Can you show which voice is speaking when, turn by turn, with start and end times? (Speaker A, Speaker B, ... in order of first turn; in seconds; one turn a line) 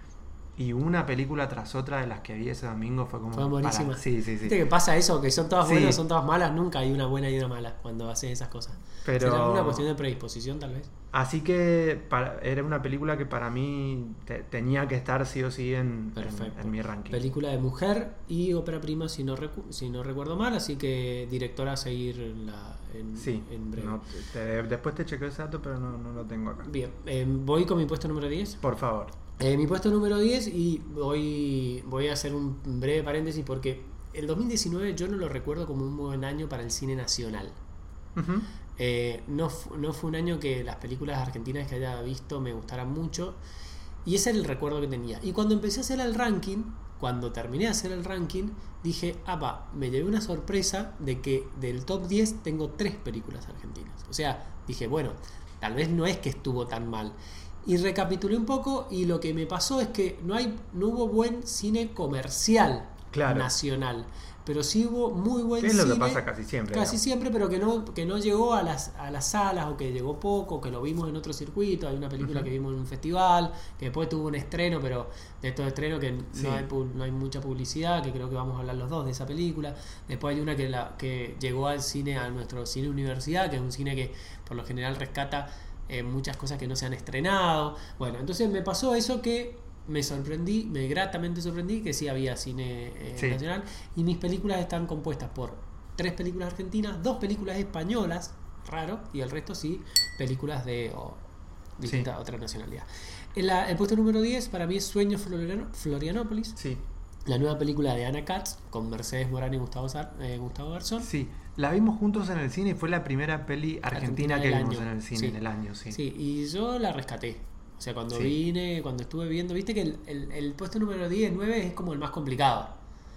Speaker A: 0.6-4.5
Speaker B: 3.3-10.9
Speaker A: 5.6-6.0
Speaker A: 9.1-9.9
Speaker A: 11.1-17.2
Speaker B: 16.2-24.0
Speaker A: 23.2-26.7
Speaker B: 26.6-28.6
Speaker A: 28.6-29.1
Speaker B: 29.4-37.6
Speaker A: 38.2-38.5
Speaker B: 38.8-43.4
Speaker B: 44.0-101.2
Speaker A: 63.1-63.5
Speaker A: 65.6-67.0
Speaker A: 72.2-72.5
Speaker A: 76.3-76.7
Speaker B: 101.8-106.6
Speaker A: 106.6-106.8
Speaker B: 107.3-111.1
Speaker A: 111.0-116.0
Speaker B: 113.9-115.4
Speaker B: 115.9-122.7